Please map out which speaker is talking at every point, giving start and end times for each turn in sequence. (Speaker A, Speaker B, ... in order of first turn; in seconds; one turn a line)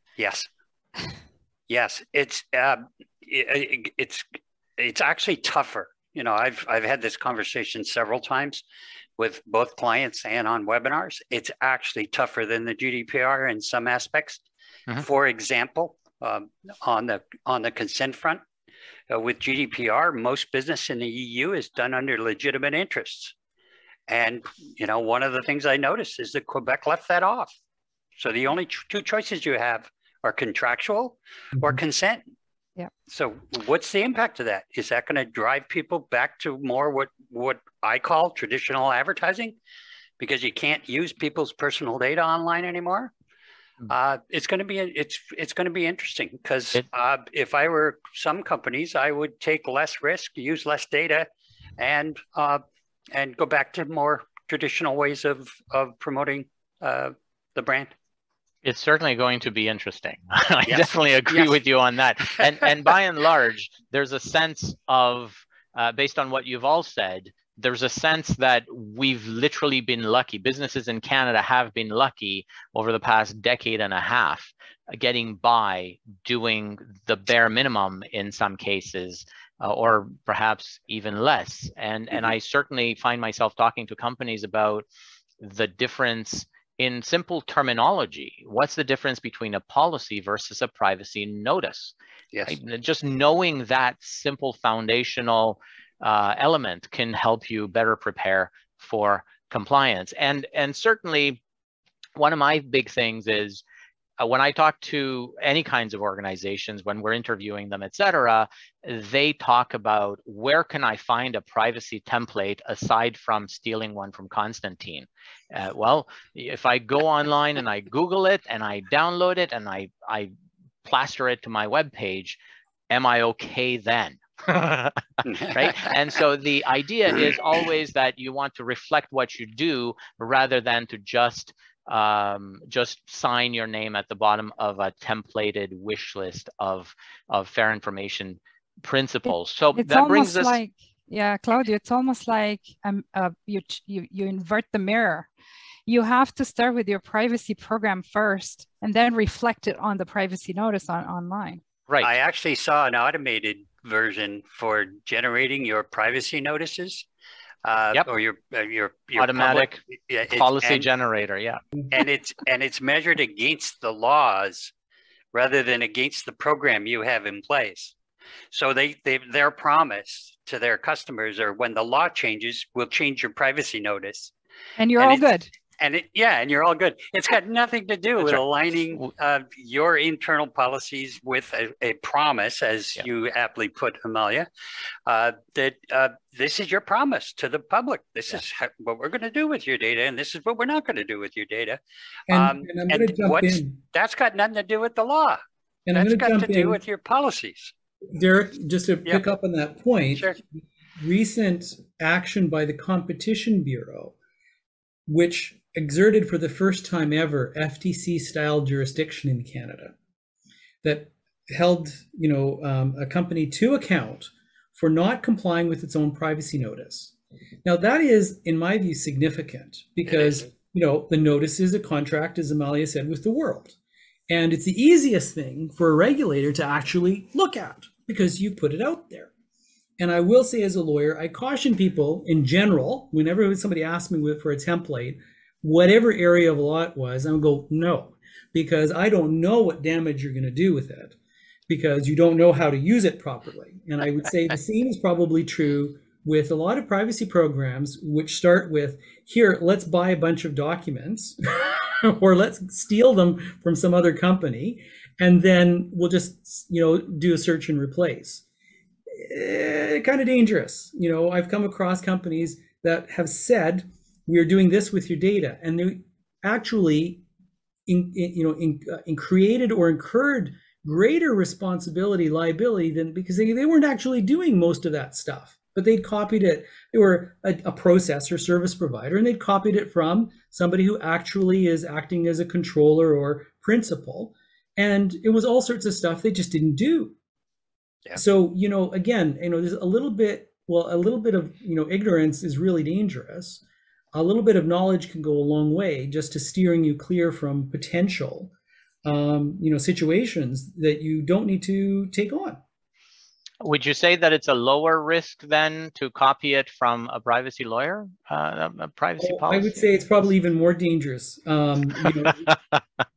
Speaker A: 0.2-0.5
Speaker A: 1.7-4.2
Speaker A: 4.8-8.6
Speaker A: 9.2-14.4
Speaker A: 15.0-18.4
Speaker A: 19.1-23.4
Speaker A: 24.1-27.5
Speaker A: 28.2-32.2
Speaker A: 33.1-39.5
Speaker A: 40.2-43.1
Speaker A: 43.9-51.3
Speaker A: 51.8-57.9
Speaker B: 58.6-84.8
Speaker A: 60.7-61.5
Speaker B: 85.4-91.9
Speaker B: 92.5-101.4
Speaker B: 102.2-103.6
Speaker B: 104.2-120.3
Speaker B: 120.8-122.4
Speaker B: 122.9-140.6
Speaker C: 139.8-145.3
Speaker C: 145.9-151.6
Speaker A: 152.0-157.1
Speaker A: 157.7-160.9
Speaker B: 159.2-161.6
Speaker A: 161.9-164.7
Speaker A: 165.3-167.9
Speaker A: 168.5-174.3
Speaker C: 174.8-175.5
Speaker A: 175.0-175.3
Speaker A: 175.8-184.5
Speaker A: 185.1-195.4
Speaker D: 192.3-193.8
Speaker D: 195.9-196.8
Speaker A: 195.9-197.7
Speaker D: 198.1-200.3
Speaker D: 201.0-204.2
Speaker D: 205.1-209.9
Speaker D: 210.8-217.1
Speaker D: 217.7-223.8
Speaker D: 224.3-229.3
Speaker D: 230.0-241.2
Speaker D: 241.7-258.4
Speaker D: 259.1-267.2
Speaker D: 267.9-287.1
Speaker D: 288.2-293.6
Speaker D: 294.1-298.5
Speaker D: 299.1-302.6
Speaker B: 303.6-309.9
Speaker D: 309.2-312.5
Speaker B: 312.3-312.8